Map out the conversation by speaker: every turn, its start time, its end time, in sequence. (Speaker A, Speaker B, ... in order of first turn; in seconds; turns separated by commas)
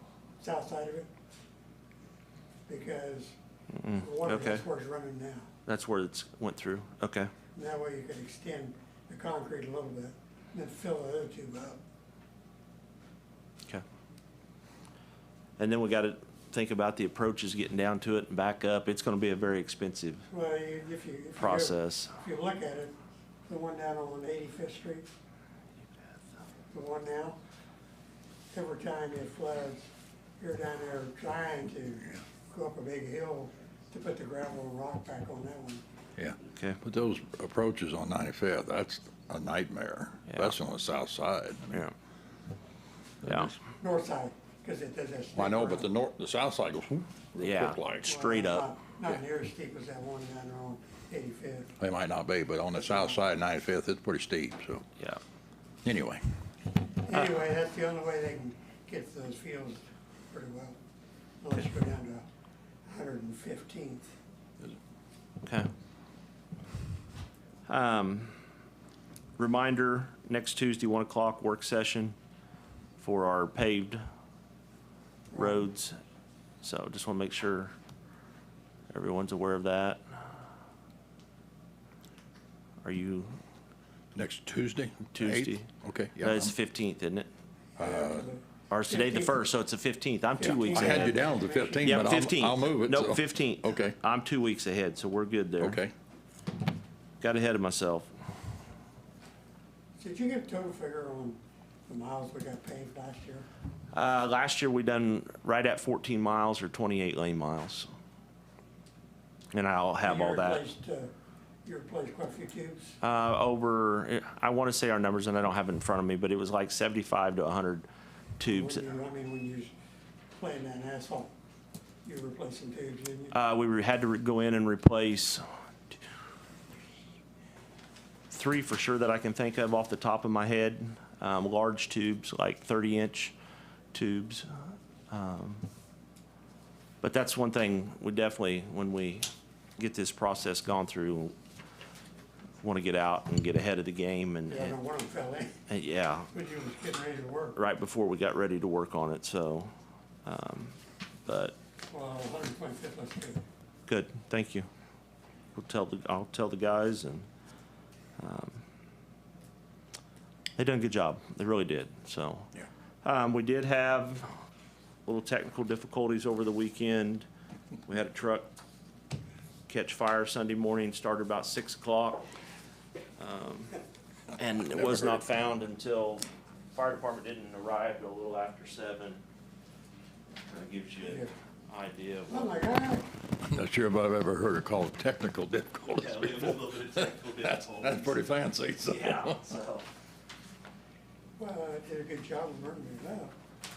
Speaker A: 0.4-1.1, Speaker A: 2.7-3.4, Speaker B: 3.8-4.7, Speaker A: 4.0-5.5, Speaker B: 5.7-7.3, Speaker A: 7.6-11.8, Speaker B: 15.6-20.3, Speaker A: 20.3-23.0, Speaker B: 21.4-22.1, Speaker A: 23.5-25.1, Speaker A: 26.7-27.4, Speaker A: 28.5-35.8, Speaker C: 36.2-41.9, Speaker C: 43.2-43.5, Speaker B: 43.2-43.5, Speaker A: 43.8-45.9, Speaker C: 45.4-48.2, Speaker B: 47.4-48.7, Speaker A: 48.1-51.7, Speaker C: 51.8-54.9, Speaker C: 55.8-56.2, Speaker A: 57.0-60.8, Speaker A: 61.4-62.3, Speaker A: 62.9-64.1, Speaker B: 65.4-65.7, Speaker B: 67.7-68.3, Speaker B: 69.4-72.2, Speaker B: 73.0-74.0, Speaker B: 75.3-76.0, Speaker B: 76.6-77.7, Speaker B: 78.9-80.0, Speaker B: 82.8-83.4, Speaker C: 84.2-86.5, Speaker B: 85.1-85.7, Speaker B: 86.2-87.3, Speaker C: 87.8-88.3, Speaker A: 87.8-89.4, Speaker B: 88.7-91.2, Speaker A: 90.4-92.0, Speaker C: 90.6-94.0, Speaker B: 91.8-95.8, Speaker C: 95.6-95.9, Speaker B: 97.2-98.1, Speaker A: 100.0-103.5, Speaker B: 103.9-107.9, Speaker B: 109.5-110.7, Speaker A: 110.0-111.1, Speaker A: 111.7-113.0, Speaker B: 113.0-117.9, Speaker B: 118.4-119.0, Speaker A: 118.5-119.7, Speaker A: 120.4-121.3, Speaker A: 122.0-123.3, Speaker B: 123.3-125.4, Speaker B: 128.3-133.3, Speaker B: 133.9-135.7, Speaker B: 137.0-141.3, Speaker B: 142.6-144.8, Speaker A: 144.5-145.6, Speaker B: 145.7-146.3, Speaker A: 146.3-147.6, Speaker B: 147.6-149.7, Speaker B: 150.3-151.6, Speaker A: 151.9-153.4, Speaker B: 153.9-154.7, Speaker B: 155.6-157.3, Speaker B: 158.2-158.6, Speaker B: 160.6-162.5, Speaker B: 163.0-164.3, Speaker B: 165.1-167.3, Speaker B: 167.9-168.5, Speaker B: 169.7-172.3, Speaker B: 173.2-173.8, Speaker B: 174.4-179.2, Speaker C: 174.8-175.2, Speaker B: 180.5-182.6, Speaker A: 181.0-181.3, Speaker A: 182.3-183.1, Speaker C: 183.4-189.4, Speaker B: 185.9-188.3, Speaker B: 188.8-189.9, Speaker A: 191.4-193.3